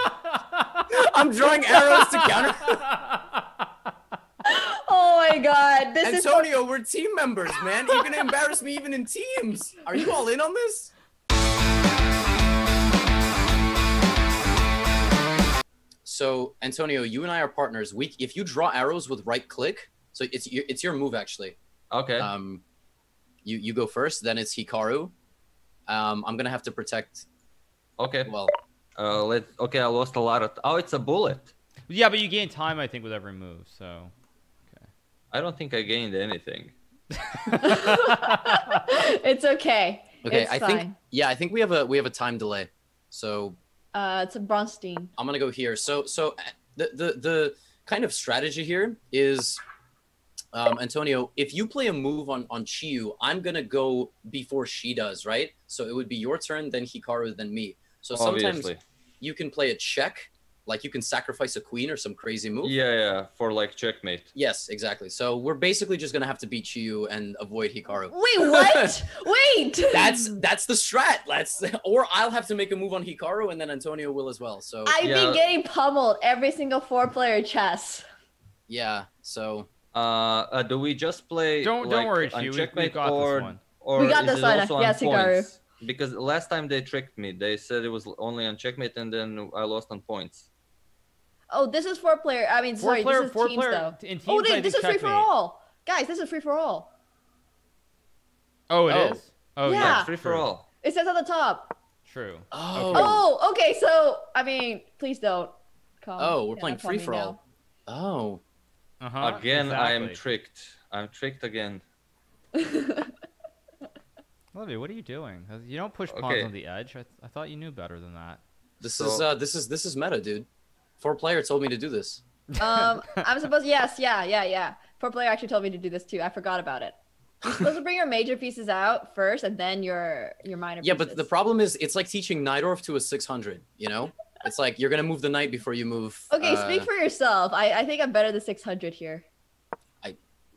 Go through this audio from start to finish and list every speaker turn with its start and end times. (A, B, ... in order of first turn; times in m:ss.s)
0:00.2-0:00.9 A
0:00.9-0:02.9 B
0:02.9-0:03.2 A
0:04.4-0:06.5 C
0:06.0-0:10.9 B
0:16.0-0:21.6 B
0:21.9-0:22.3 D
0:22.2-0:22.6 B
0:23.4-0:25.1 B
0:25.9-0:27.2 B
0:28.0-0:28.3 D
0:28.2-0:28.5 B
0:29.0-0:31.5 D
0:31.9-0:34.1 A
0:35.3-0:36.7 D
0:37.2-0:38.8 A
0:37.6-0:40.9 C
0:40.2-0:43.6 B
0:43.9-0:45.1 C
0:45.2-0:49.6 B
0:50.5-1:02.7 B
0:58.1-0:58.8 D
1:02.6-1:04.3 D
1:04.3-1:09.0 B
1:08.1-1:10.4 C
1:09.9-1:14.9 B
1:14.8-1:18.0 C
1:15.0-1:15.4 D
1:18.7-1:19.7 B
1:19.9-1:30.5 D
1:21.6-1:23.6 A
1:24.0-1:25.5 C
1:31.5-1:36.9 C
1:32.8-1:35.3 A
1:38.7-1:40.5 A
1:38.9-1:39.2 B
1:39.6-1:40.1 C
1:39.7-1:40.6 D
1:40.8-1:41.8 C
1:42.1-1:43.2 A
1:42.5-1:43.2 B
1:42.9-1:47.4 C
1:46.2-1:48.4 B
1:49.0-1:50.2 A
1:49.2-1:51.8 D
1:52.5-1:53.1 C
1:54.5-1:58.4 A
1:56.1-1:56.5 D
1:58.8-2:00.5 B
1:58.8-1:59.2 D
2:01.0-2:02.2 B
2:02.6-2:02.9 A
2:02.6-2:06.9 C
2:07.5-2:11.3 C
2:10.8-2:16.9 B
2:16.3-2:19.2 C